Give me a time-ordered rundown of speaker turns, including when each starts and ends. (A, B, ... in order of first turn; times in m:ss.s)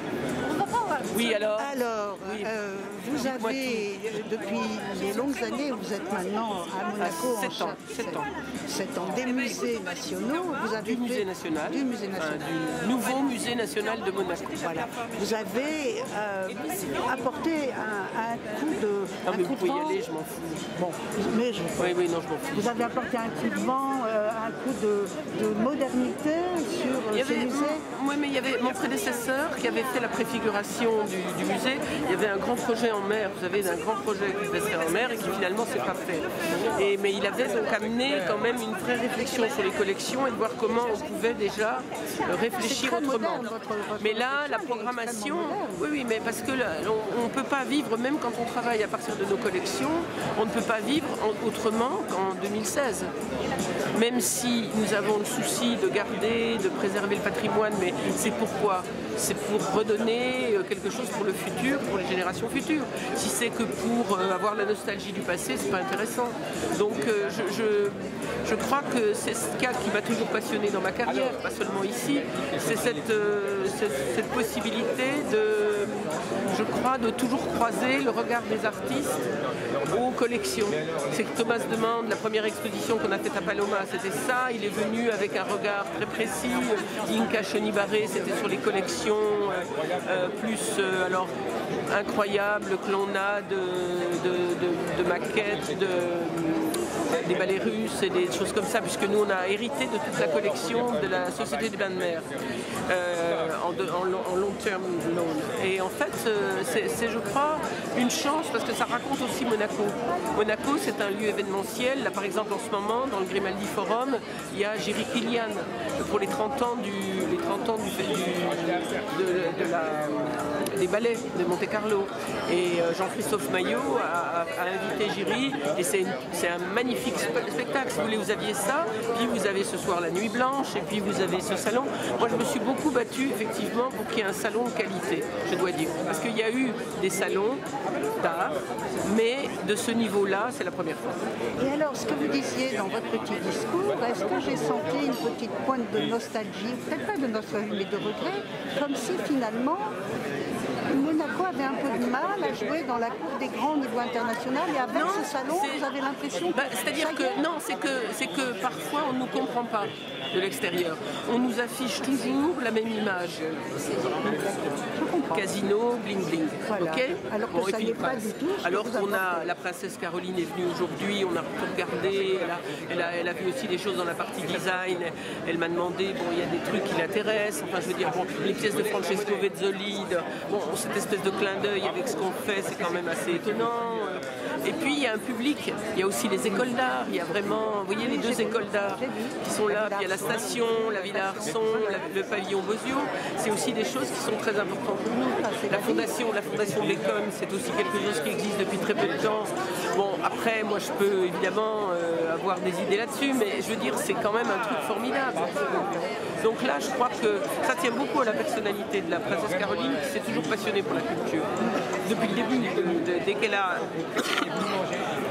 0:00.4-0:12.8 A
0:01.1-0:02.5 B
0:03.1-0:04.2 B
0:07.0-0:08.3 B
0:10.8-0:14.7 B
0:14.6-0:20.0 A
0:19.2-0:20.6 B
0:20.7-0:22.0 A
0:21.8-0:22.8 B
0:22.5-0:27.8 A
0:27.1-0:53.1 B
0:42.6-0:45.8 A
0:53.9-1:19.2 B
1:19.8-1:31.3 B
1:31.9-1:42.3 B
1:42.9-2:21.2 B
2:21.6-2:29.9 A
2:30.9-2:37.4 A
2:34.9-2:35.8 B
2:36.5-2:43.4 B
2:44.0-2:45.6 A
2:45.3-3:34.6 B
2:46.7-2:49.5 A
3:08.0-3:12.1 A
3:15.2-3:16.2 A